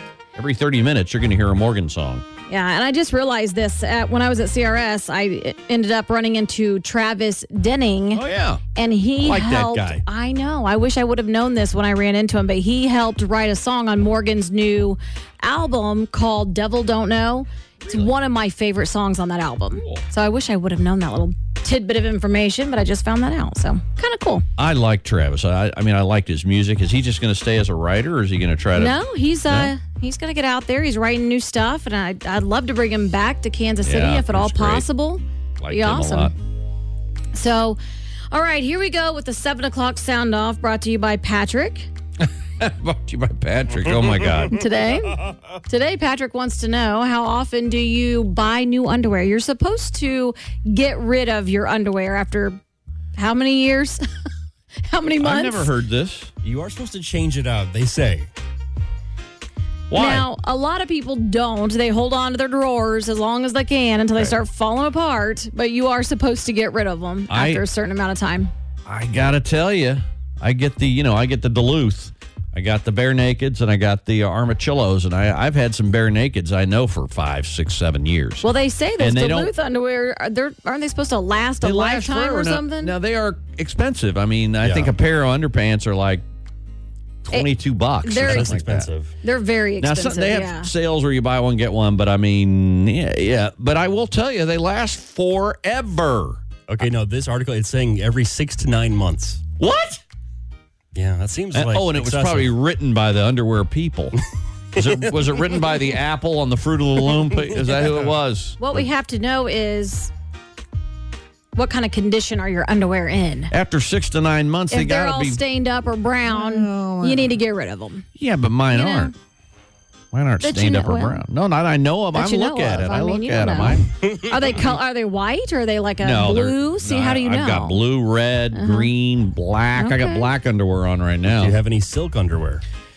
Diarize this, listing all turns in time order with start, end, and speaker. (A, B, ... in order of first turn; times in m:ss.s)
0:00.3-0:02.2 A
0:02.5-0:24.4 B
0:08.1-0:08.6 A
0:09.2-0:10.0 A
0:17.8-0:18.1 A
0:24.6-0:29.7 A
0:28.7-0:36.3 B
0:33.8-0:34.9 A
0:35.6-0:36.3 A
0:37.3-0:37.8 B
0:38.3-0:41.9 B
0:42.2-0:44.6 A
0:44.5-0:52.6 B
0:53.1-0:54.0 B
0:54.8-0:55.7 B
0:55.2-0:56.3 A
0:56.4-0:58.3 C
0:59.9-1:00.3 A
0:59.9-1:08.5 B
1:07.3-1:07.6 A
1:08.9-1:18.4 A
1:18.4-1:22.9 B
1:19.0-1:19.5 A
1:21.6-1:26.2 A
1:24.6-1:24.9 C
1:27.2-1:28.9 A
1:28.0-1:28.7 B
1:28.2-1:29.1 C
1:29.2-1:30.7 B
1:29.8-1:36.4 A
1:36.7-1:39.4 C
1:39.6-1:40.0 A
1:40.9-1:42.5 C
1:41.5-1:44.2 A
1:44.7-1:48.9 A
1:48.6-1:50.1 B
1:51.6-1:53.5 B
1:53.5-1:55.4 A
1:54.7-1:58.0 B
1:56.2-1:57.4 A
1:58.2-1:59.1 A
1:58.7-1:59.1 B
2:00.1-2:03.9 A
2:00.4-2:01.2 B
2:02.1-2:07.8 B
2:04.1-2:04.3 C
2:06.0-2:11.6 A
2:08.5-2:08.9 B
2:09.7-2:10.3 B
2:11.2-2:12.6 C